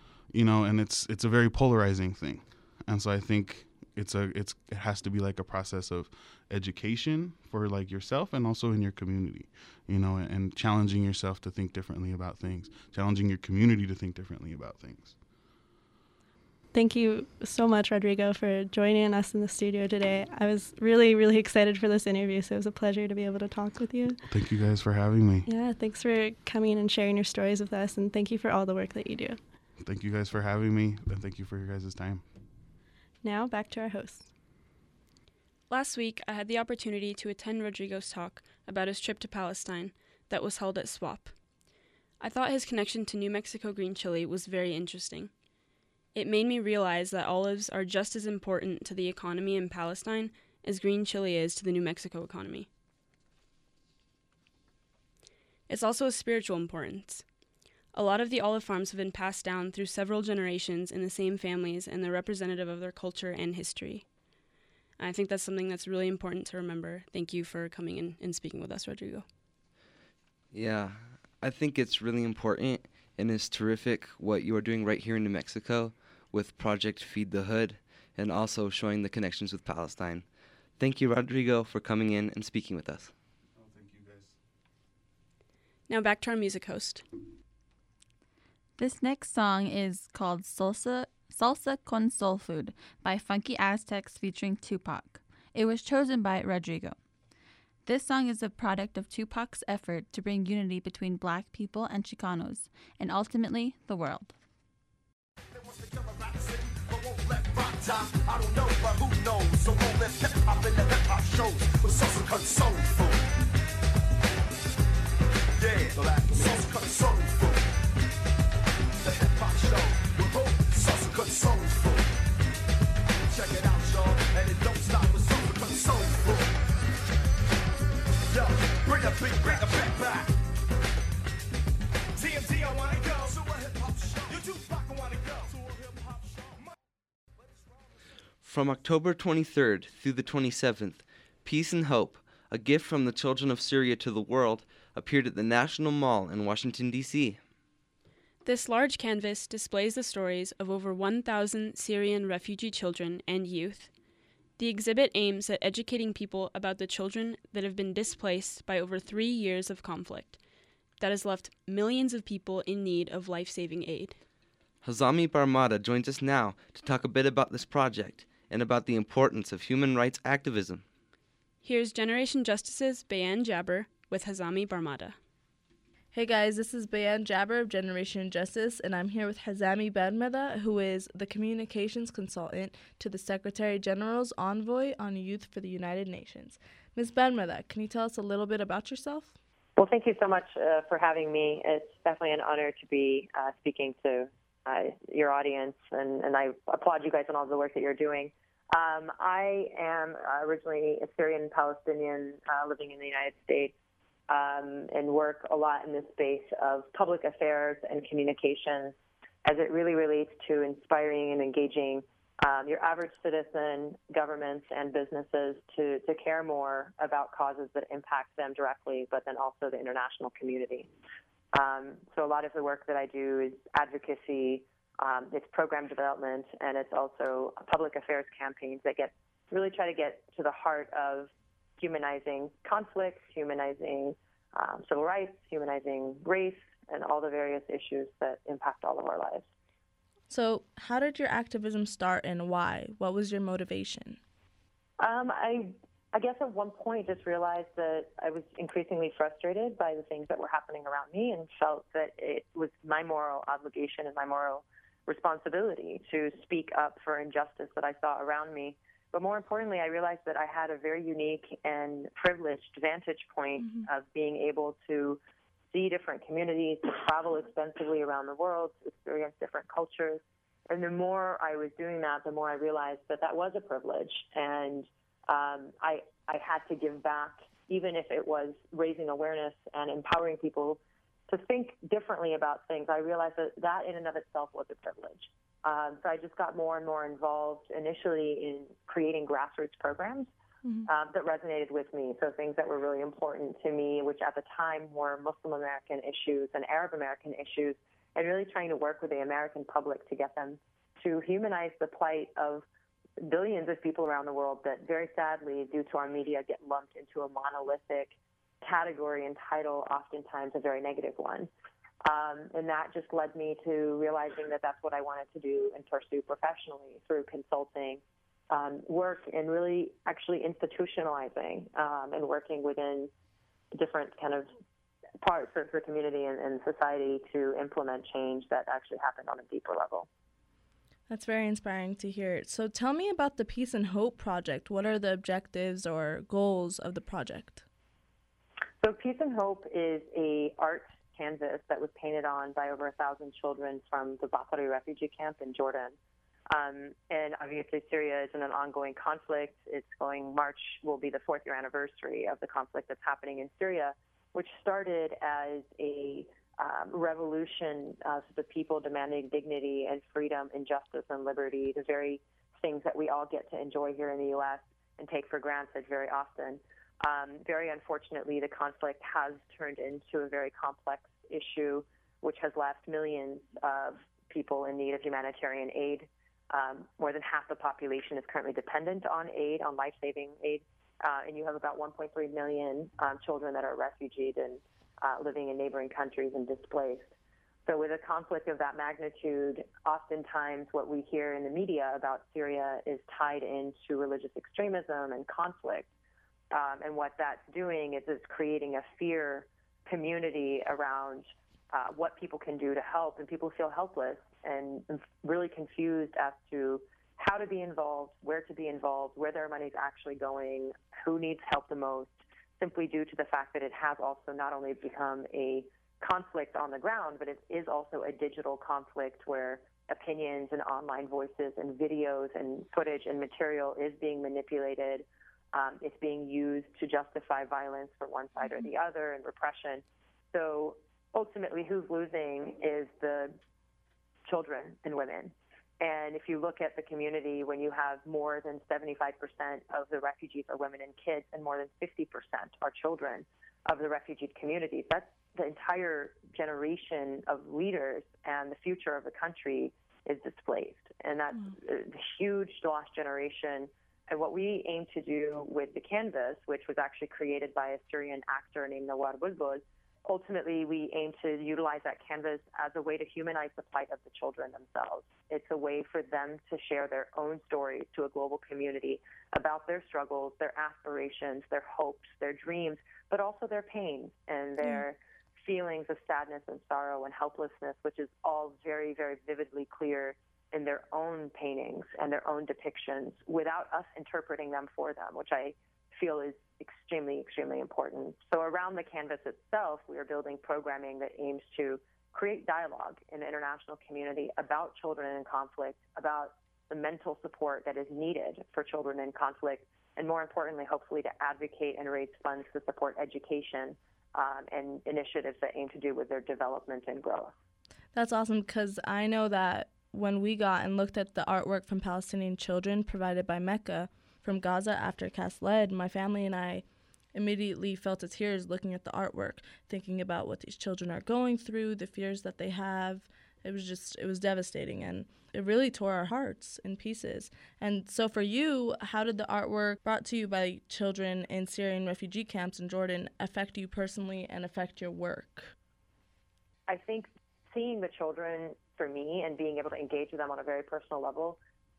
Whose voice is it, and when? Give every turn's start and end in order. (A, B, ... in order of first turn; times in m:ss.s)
0:00.3-0:15.2 A
0:16.7-0:24.2 B
0:24.3-0:25.5 A
0:25.4-0:29.4 B
0:29.8-0:32.2 A
0:33.2-0:34.3 B
0:35.7-0:41.3 C
0:42.2-0:45.3 C
0:46.2-0:52.7 C
0:55.7-0:57.2 C
0:57.9-1:04.1 C
1:05.0-1:09.2 C
1:10.5-1:20.3 D
1:20.8-1:23.1 D
1:25.9-1:27.0 C
1:28.8-1:37.0 E
1:37.9-1:44.3 E
1:45.5-1:53.2 F
1:55.6-1:57.7 F
1:59.0-2:02.1 F
2:03.3-2:06.5 F
2:08.3-2:10.4 F
2:12.2-2:16.7 F
2:18.4-2:27.4 D
2:28.4-2:33.9 C
2:34.6-2:40.4 C
2:41.0-2:44.2 C
2:44.8-2:50.8 D
2:51.6-2:55.2 C
2:56.1-3:09.3 G
3:09.8-3:23.7 H
3:24.3-3:40.9 H
3:41.5-3:59.4 H
4:00.3-4:04.2 G
4:05.0-4:25.2 H
4:25.7-4:50.3 H
4:50.9-5:02.6 H
5:03.2-5:11.5 H
5:12.0-5:23.1 H
5:23.7-5:24.5 H
5:25.2-5:30.1 H
5:31.1-5:37.6 G
5:38.8-5:46.0 H
5:46.5-6:27.1 H
6:27.7-6:35.9 H
6:36.5-7:13.4 H
7:14.3-8:27.3 H
8:27.9-8:55.5 G
8:56.7-9:01.4 H